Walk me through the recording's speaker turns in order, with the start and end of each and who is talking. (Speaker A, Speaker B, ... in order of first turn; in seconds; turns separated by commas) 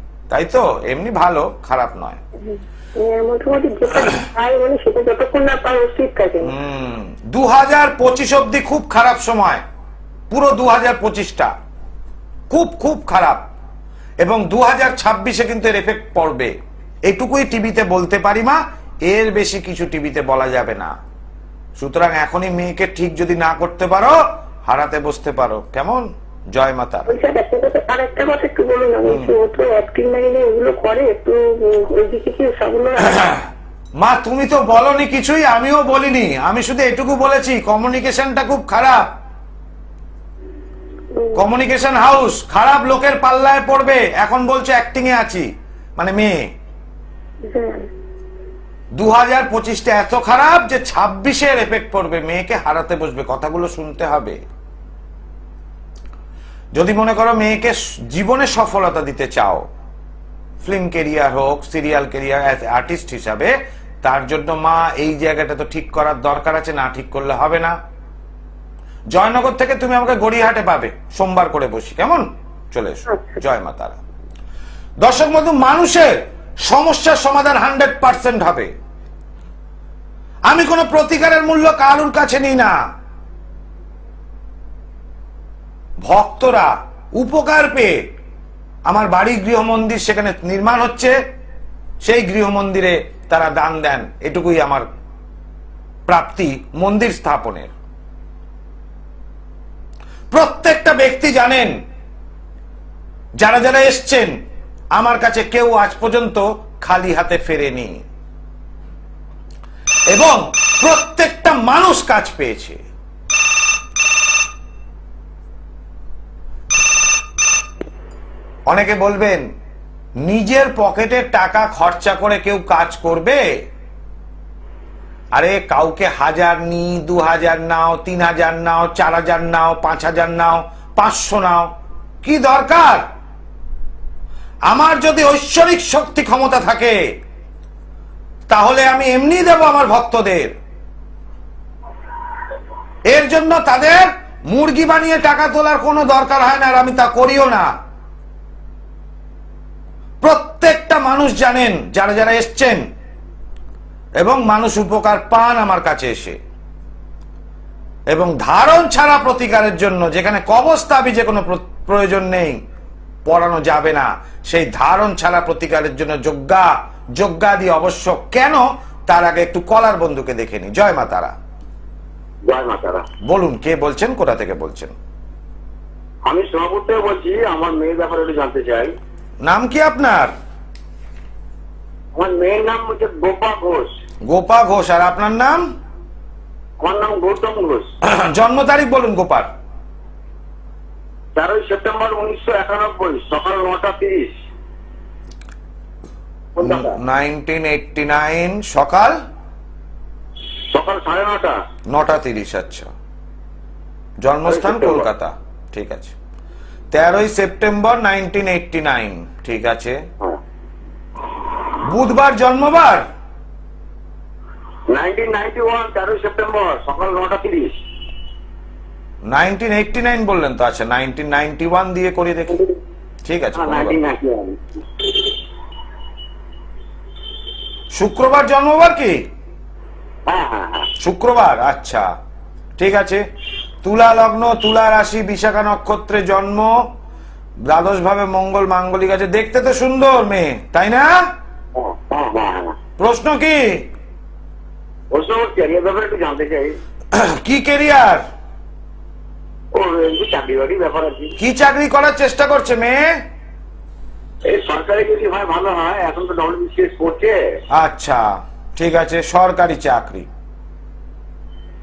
Speaker A: 0.3-2.2, Speaker B: 2.5-6.5, Speaker A: 6.4-9.6, Speaker A: 10.3-11.5, Speaker A: 12.5-13.4, Speaker A: 14.2-16.5, Speaker A: 17.1-20.9, Speaker A: 21.8-27.1, Speaker B: 27.1-33.4, Speaker A: 29.1-29.4, Speaker A: 34.0-39.1, Speaker B: 41.1-41.4, Speaker A: 41.3-45.5, Speaker A: 46.0-46.4, Speaker B: 47.5-47.9, Speaker A: 49.0-54.4, Speaker A: 56.8-59.7, Speaker A: 60.6-67.8, Speaker A: 69.1-74.0, Speaker B: 73.1-73.4, Speaker A: 75.0-78.7, Speaker A: 80.5-82.8, Speaker A: 86.0-88.0, Speaker A: 88.9-91.2, Speaker A: 92.0-94.9, Speaker A: 96.1-97.7, Speaker A: 100.3-101.8, Speaker A: 103.4-104.4, Speaker A: 105.0-108.0, Speaker A: 110.1-112.8, Speaker A: 118.7-119.5, Speaker A: 120.2-123.4, Speaker A: 125.3-131.7, Speaker A: 132.2-133.0, Speaker A: 134.7-137.0, Speaker A: 138.5-140.5, Speaker A: 143.1-147.7, Speaker A: 150.2-152.8, Speaker A: 154.2-156.4, Speaker A: 158.1-162.6, Speaker A: 163.3-171.3, Speaker C: 172.4-173.1, Speaker A: 173.3-174.9, Speaker C: 176.3-178.9, Speaker A: 179.4-180.3, Speaker C: 182.2-183.9, Speaker A: 184.3-185.6, Speaker C: 186.8-187.9, Speaker A: 188.1-189.5, Speaker C: 191.4-194.3, Speaker C: 196.6-197.0, Speaker A: 196.6-199.2, Speaker C: 200.7-201.6, Speaker A: 201.9-202.9, Speaker A: 204.2-206.1, Speaker C: 204.5-205.1, Speaker A: 206.9-210.0, Speaker A: 211.8-213.1, Speaker C: 214.9-217.8, Speaker A: 219.3-222.7, Speaker A: 223.3-224.0, Speaker C: 223.6-224.6, Speaker A: 227.9-229.2, Speaker C: 230.3-230.9, Speaker A: 231.0-232.1, Speaker A: 232.8-233.2, Speaker A: 233.8-236.8, Speaker A: 237.7-241.1, Speaker C: 241.8-242.8, Speaker A: 243.0-243.8, Speaker C: 245.1-246.8, Speaker A: 247.1-248.2, Speaker C: 249.7-251.3, Speaker A: 251.4-253.2, Speaker C: 254.5-257.6, Speaker A: 257.7-260.3